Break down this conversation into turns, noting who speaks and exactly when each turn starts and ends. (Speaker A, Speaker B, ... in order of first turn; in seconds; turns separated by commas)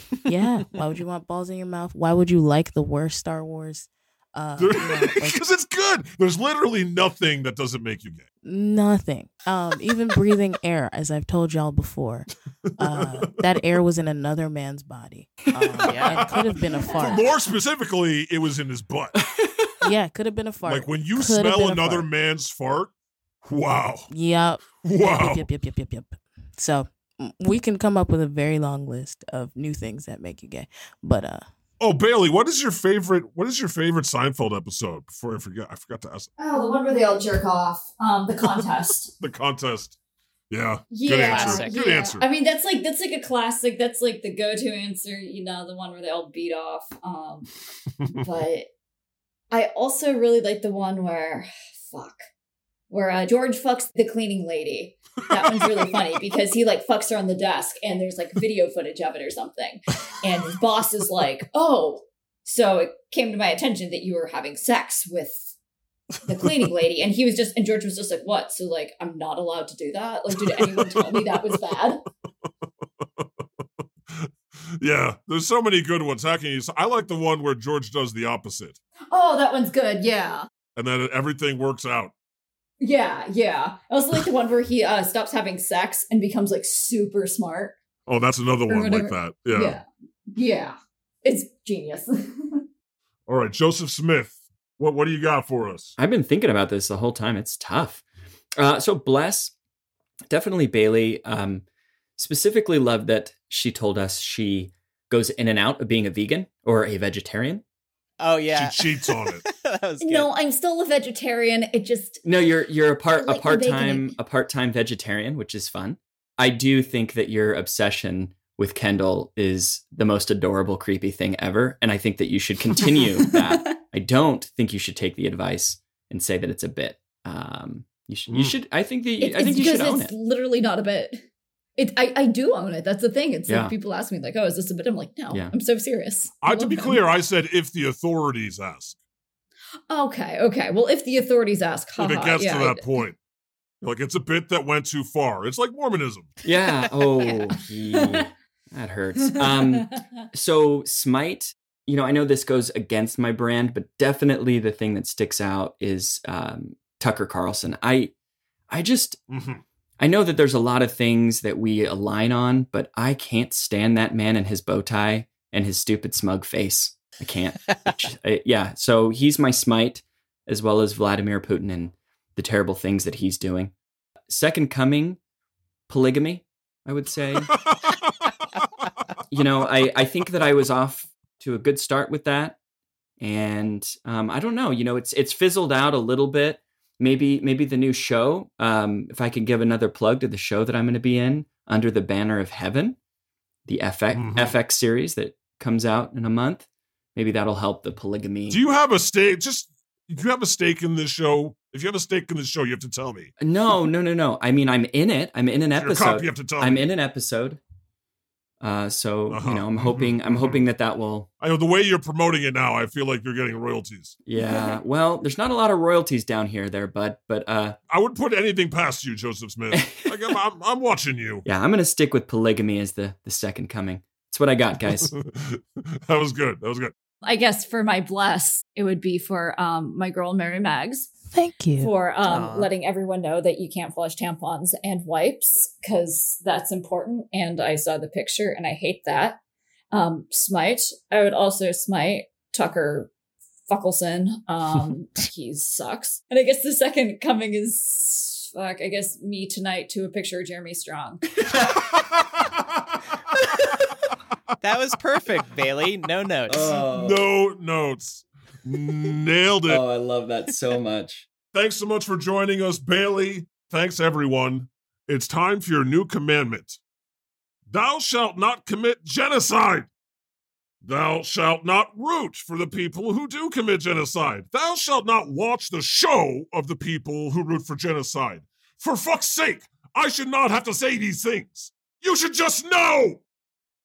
Speaker A: 0.3-5.4, Speaker B: 4.6-8.2, Speaker A: 8.4-12.3, Speaker B: 12.7-13.6, Speaker A: 12.8-17.3, Speaker C: 15.8-16.3, Speaker B: 16.1-19.2, Speaker D: 16.8-17.1, Speaker E: 19.2-19.9, Speaker A: 19.8-22.1, Speaker B: 20.6-22.9, Speaker B: 23.4-24.1, Speaker A: 24.1-31.5, Speaker B: 24.8-25.5, Speaker B: 31.8-36.3, Speaker D: 36.4-39.1, Speaker B: 39.1-40.0, Speaker B: 40.5-42.2, Speaker D: 40.9-47.5, Speaker C: 41.3-41.8, Speaker D: 48.1-48.7, Speaker D: 49.5-52.2, Speaker D: 52.9-65.5, Speaker D: 66.2-72.0, Speaker B: 70.4-71.6, Speaker B: 74.1-78.8, Speaker D: 79.1-80.5, Speaker B: 80.8-82.1, Speaker D: 82.8-87.8, Speaker B: 88.1-89.8, Speaker D: 88.7-92.6, Speaker B: 93.3-95.9, Speaker E: 96.0-98.0, Speaker E: 98.6-99.5, Speaker E: 100.3-101.6, Speaker E: 102.2-107.6, Speaker C: 108.2-110.3, Speaker B: 108.5-109.5, Speaker D: 110.0-112.2, Speaker E: 112.2-130.1, Speaker D: 113.1-114.1, Speaker B: 128.3-128.6, Speaker D: 129.2-131.2, Speaker D: 131.8-137.0, Speaker E: 133.5-133.7, Speaker B: 136.4-139.0, Speaker D: 139.9-142.8, Speaker B: 142.0-143.2, Speaker B: 143.8-146.3, Speaker E: 146.4-158.1, Speaker D: 147.2-148.3, Speaker D: 149.4-150.0, Speaker E: 158.7-159.2, Speaker B: 159.3-159.6, Speaker E: 160.0-173.7, Speaker E: 174.3-175.2, Speaker E: 175.9-177.6, Speaker E: 179.3-182.6, Speaker E: 183.2-193.0, Speaker E: 193.7-198.6, Speaker B: 194.1-194.6, Speaker B: 198.5-203.3, Speaker E: 203.4-207.6, Speaker B: 205.8-206.9, Speaker E: 208.6-211.3, Speaker B: 209.3-210.6, Speaker B: 211.4-214.2, Speaker E: 214.3-217.8, Speaker B: 217.9-221.4, Speaker E: 219.7-220.1, Speaker E: 221.4-225.1, Speaker B: 225.0-226.9, Speaker D: 227.2-231.1, Speaker A: 231.3-231.9, Speaker D: 231.8-239.4, Speaker C: 232.3-232.7, Speaker D: 239.9-243.1, Speaker D: 243.7-251.2, Speaker E: 251.4-251.8, Speaker B: 252.0-252.8, Speaker C: 254.6-256.7, Speaker E: 256.5-257.3, Speaker B: 256.8-259.8, Speaker E: 259.7-261.3, Speaker B: 261.5-266.8, Speaker B: 267.7-269.9, Speaker B: 270.8-283.2